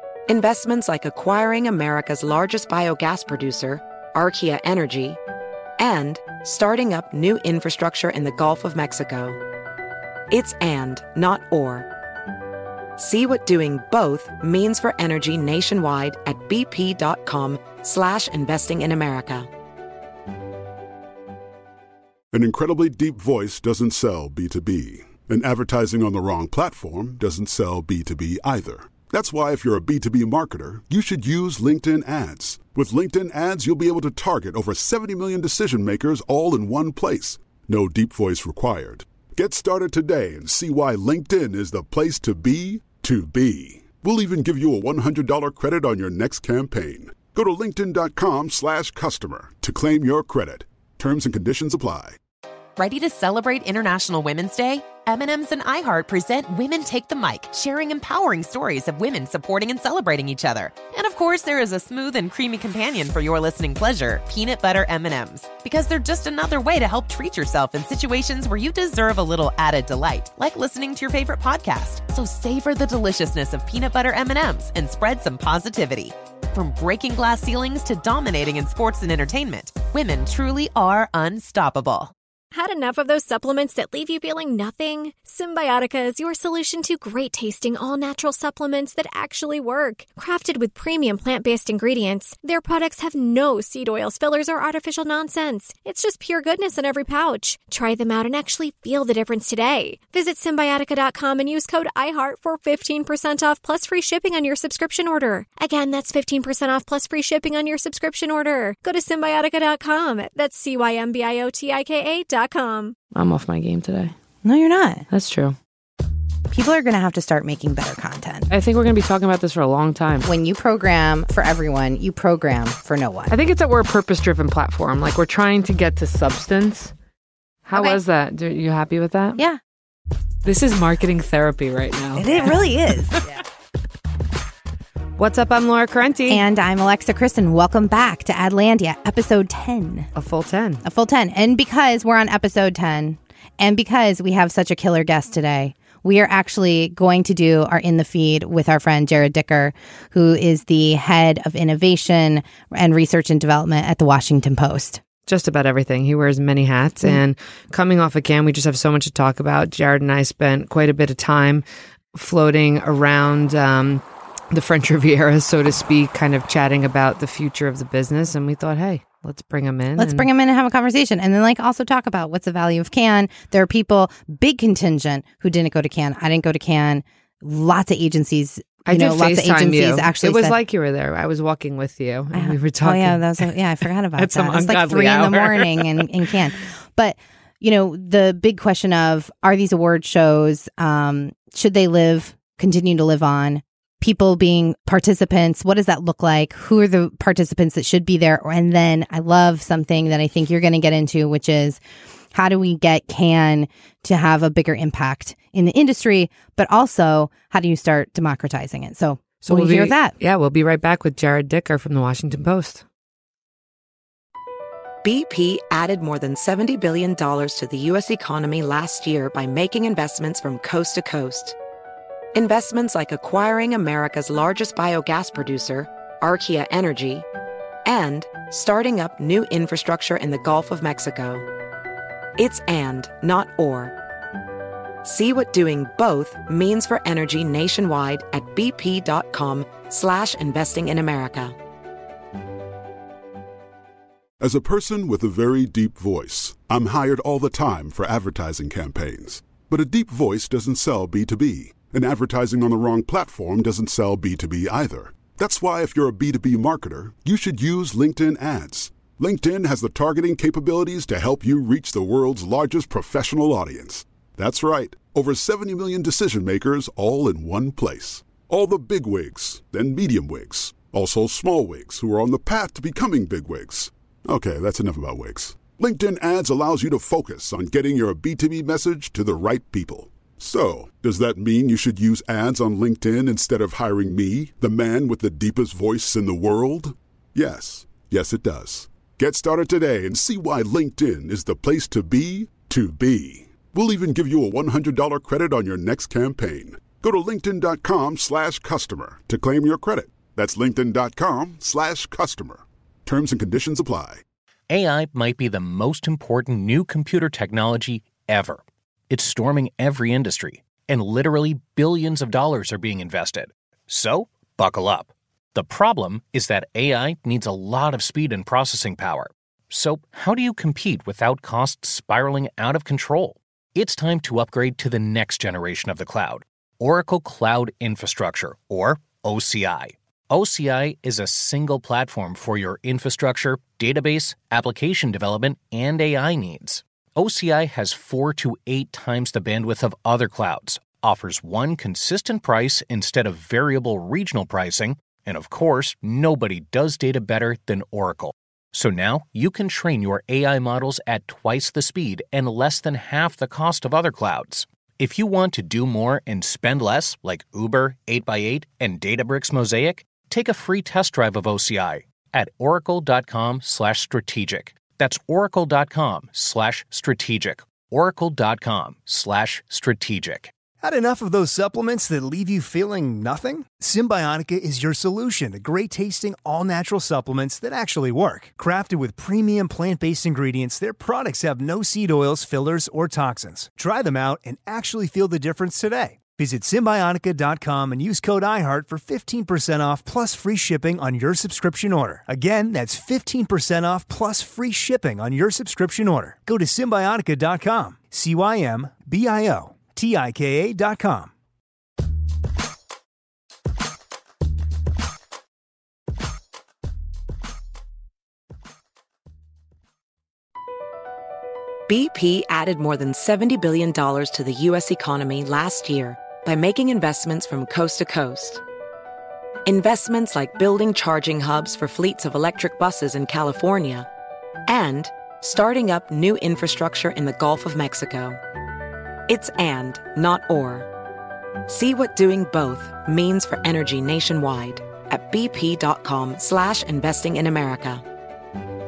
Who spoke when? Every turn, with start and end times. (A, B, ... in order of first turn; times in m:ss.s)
0:00.3-0:05.2 A
0:05.8-0:09.4 A
0:10.3-0:11.9 A
0:13.0-0:19.5 A
0:22.3-0:52.2 B
0:52.8-1:22.1 C
1:22.5-1:53.0 D
1:53.1-1:54.1 E
1:54.4-1:55.0 F
1:55.1-1:55.6 E
1:56.5-1:58.5 F
1:58.5-2:00.3 E
2:00.2-2:03.3 F
2:03.3-2:06.9 E
2:07.7-2:09.4 E
2:07.8-2:08.0 F
2:10.4-2:12.7 E
2:12.2-2:13.2 F
2:15.2-2:16.4 E
2:16.3-2:20.1 F
2:20.2-2:20.8 E
2:20.8-2:35.0 F
2:35.3-2:50.3 E
2:50.0-3:00.6 F
2:58.8-3:03.6 E
3:02.3-3:21.8 F
3:04.1-3:06.4 E
3:22.3-3:30.2 F
3:29.4-3:32.8 E
3:35.0-3:41.6 A
3:42.4-3:47.3 A
3:47.8-3:51.4 A
3:52.4-3:53.9 A
3:55.0-4:01.6 A
4:04.4-5:04.2 B
5:04.7-6:10.5 G
6:10.8-6:41.3 H
6:51.9-6:58.6 A
6:59.7-7:04.1 A
7:04.7-7:08.4 A
7:09.3-7:10.9 A
7:11.7-7:18.0 A